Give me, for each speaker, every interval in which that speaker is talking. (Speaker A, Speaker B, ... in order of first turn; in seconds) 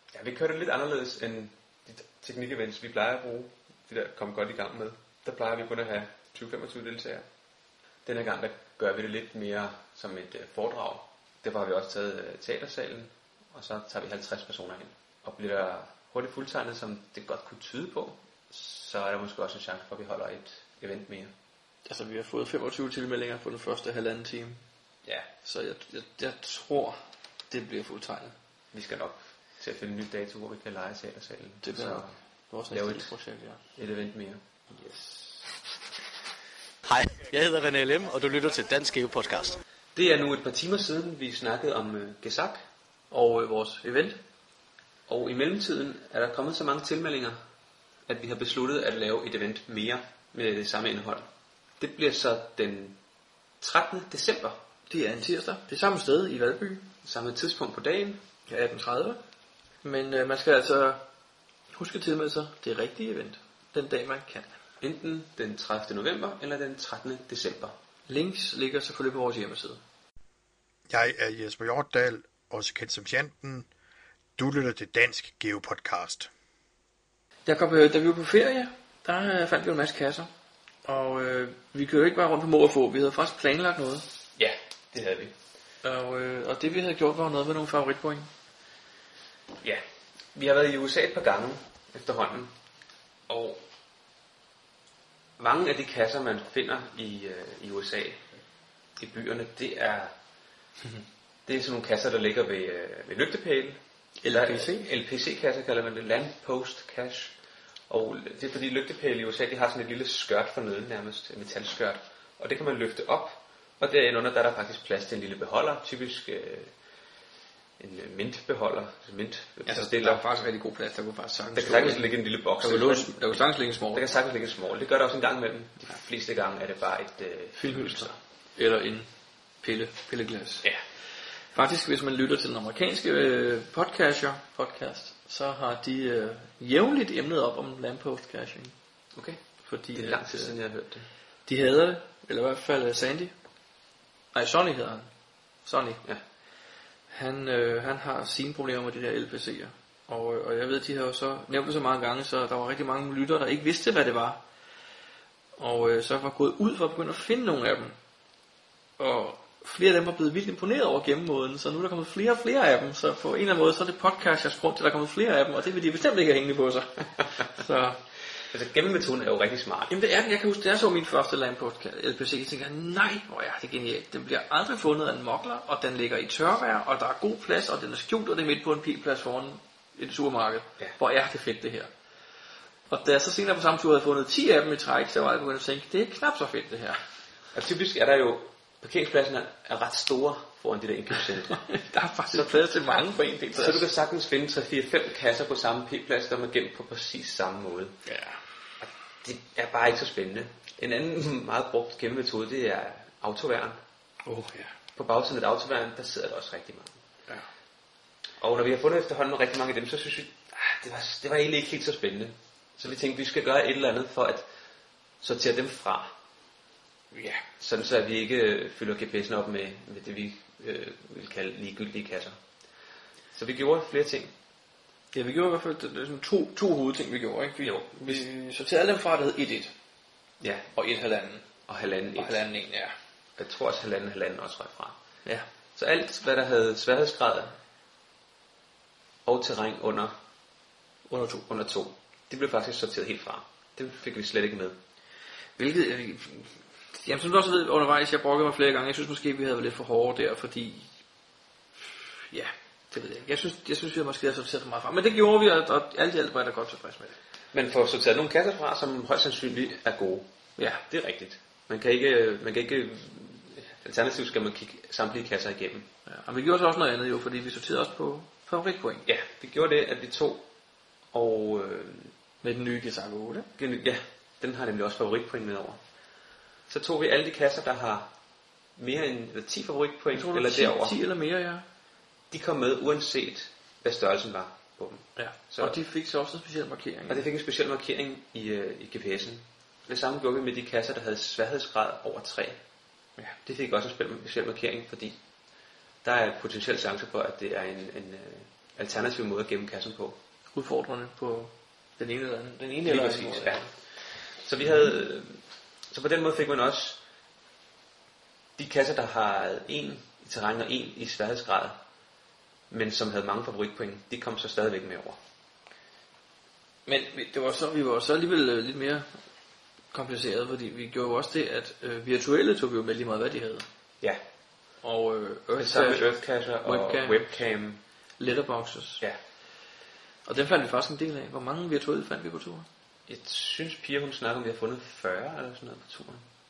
Speaker A: 0.1-7.3, 8.1-21.3, 28.7-32.1, 32.7-33.1, 33.8-35.2, 40.0-42.6, 45.1-47.4, 48.1-51.3, 51.8-53.0, 53.6-54.6, 57.0-58.2, 64.8-67.8, 84.4-85.3, 90.3-92.5, 93.3-93.6, 95.4-98.3, 99.0-100.1, 101.5-107.3, 107.9-116.7, 117.8-120.2, 121.5-128.2, 139.2-139.4, 139.9-141.1, 168.5-169.9, 187.5-191.6, 192.3-198.0, 198.8-203.8, 205.0-207.0, 208.4-214.5, 215.2-216.1, 217.6-222.4, 223.3-224.3, 227.6-228.2, 230.4-230.7, 231.7-232.4, 233.4-235.0, 235.8-237.6, 239.2-240.1, 241.5-244.8, 257.5-260.3, 260.9-265.9, 269.1-270.5, 271.1-272.1, 273.6-275.8, 276.7-278.1, 278.8-281.0, 282.3-285.8, 287.1-292.6, 293.4-295.2, 296.0-300.2, 302.9-307.0, 308.6-311.8, 312.7-315.2, 325.5-327.8, 333.1-336.3
Speaker B: 21.9-24.6, 25.4-27.0, 27.5-28.4, 31.6-33.6, 43.1-44.2, 54.9-56.9, 58.5-59.2, 59.8-61.0, 61.7-64.5, 68.1-69.8, 77.5-80.3, 80.8-84.1, 85.8-88.3, 104.2-104.9, 119.7-124.1, 127.6-129.1, 129.6-130.7, 131.5-138.7, 139.7-140.6, 141.5-143.3, 144.3-145.1, 145.7-146.0, 147.1-154.4, 155.6-157.9, 159.0-168.0, 169.9-181.9, 182.9-187.0, 191.5-193.9, 198.1-198.4, 204.2-204.7, 217.1-217.4, 225.1-229.7, 230.8-231.4, 232.2-232.9, 241.1-241.4, 245.6-250.9, 251.8-257.2, 260.6-260.8, 266.1-269.1, 272.4-273.5, 280.1-281.6, 285.2-287.3, 300.5-303.7, 316.9-319.1, 319.9-323.7, 324.8-327.3, 328.2-329.0, 330.2-332.7
Speaker C: 36.9-39.5
Speaker D: 70.9-73.7, 74.4-76.3